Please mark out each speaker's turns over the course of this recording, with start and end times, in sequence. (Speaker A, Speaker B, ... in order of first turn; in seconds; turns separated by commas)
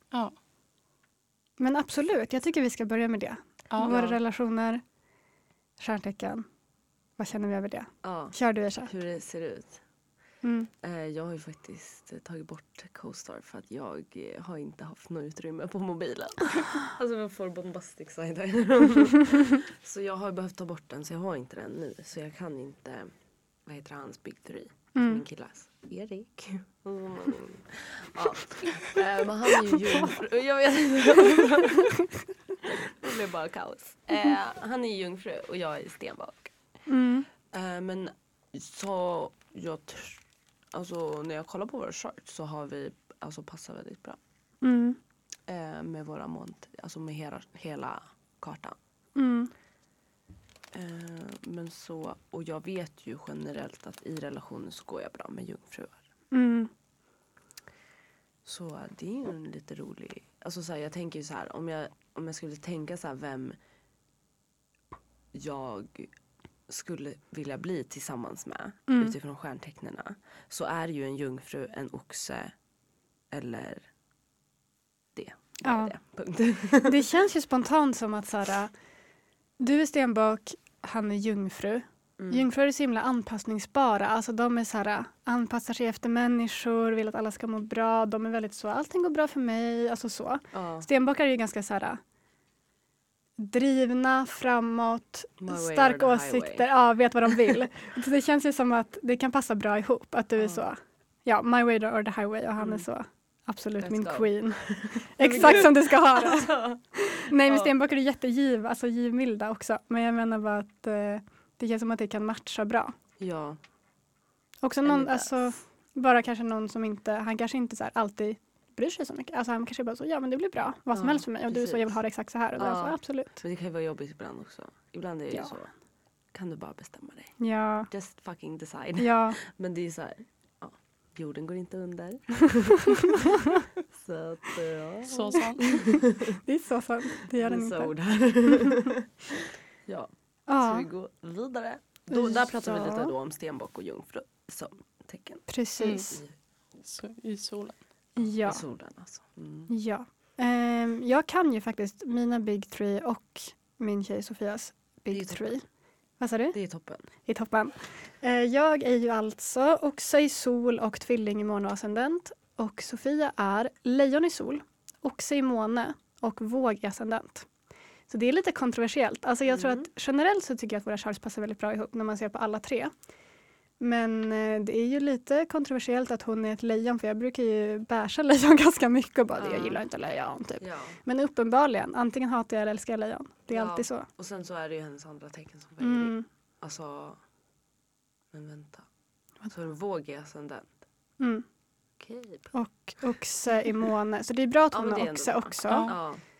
Speaker A: 1.6-4.8, Speaker B: 3.7-4.0, Speaker C: 3.8-4.2, Speaker A: 5.8-6.5, Speaker A: 7.2-8.9, Speaker C: 8.0-9.8, Speaker A: 10.4-10.7, Speaker C: 10.8-23.1, Speaker C: 23.6-32.0, Speaker A: 24.9-25.2, Speaker C: 32.6-36.5, Speaker A: 36.9-37.3, Speaker C: 37.5-40.2, Speaker C: 40.7-44.2, Speaker A: 44.6-45.0, Speaker C: 45.5-48.8, Speaker A: 49.1-49.5, Speaker C: 50.7-56.0, Speaker A: 56.3-56.7, Speaker C: 58.4-63.6, Speaker C: 65.3-66.1, Speaker C: 66.7-72.5, Speaker A: 68.9-69.2, Speaker C: 73.3-73.9, Speaker C: 75.1-77.1, Speaker A: 75.6-75.9, Speaker A: 76.8-78.7, Speaker A: 79.6-92.0, Speaker C: 82.2-82.5, Speaker C: 90.5-90.9, Speaker A: 93.4-112.9, Speaker C: 95.4-96.7, Speaker C: 100.4-100.7, Speaker C: 102.6-102.8, Speaker C: 103.8-107.7, Speaker C: 113.2-113.6, Speaker A: 114.6-123.4, Speaker C: 114.8-115.5, Speaker C: 120.9-122.0, Speaker C: 122.5-125.7, Speaker C: 126.3-127.3, Speaker A: 127.4-127.9, Speaker C: 127.9-136.4, Speaker A: 129.0-129.4, Speaker A: 132.9-133.6, Speaker B: 135.1-135.8, Speaker A: 135.6-137.9, Speaker C: 137.3-145.4, Speaker A: 138.4-138.9, Speaker A: 140.5-140.9, Speaker A: 142.1-143.1, Speaker A: 145.5-146.2, Speaker B: 145.8-146.1, Speaker B: 146.8-147.8, Speaker A: 148.2-148.6, Speaker C: 148.2-149.7, Speaker A: 149.7-155.6, Speaker C: 155.1-155.5, Speaker A: 156.2-156.6, Speaker C: 156.5-157.1, Speaker A: 157.2-167.5, Speaker A: 168.1-172.9, Speaker C: 169.5-169.8, Speaker A: 173.8-184.1, Speaker C: 179.4-179.8, Speaker C: 180.6-181.0, Speaker C: 183.5-187.2, Speaker A: 185.8-186.2, Speaker C: 188.3-188.9, Speaker C: 189.5-190.8, Speaker A: 191.2-191.4, Speaker C: 192.0-192.5, Speaker A: 192.5-195.9, Speaker C: 194.7-196.2, Speaker B: 195.7-196.0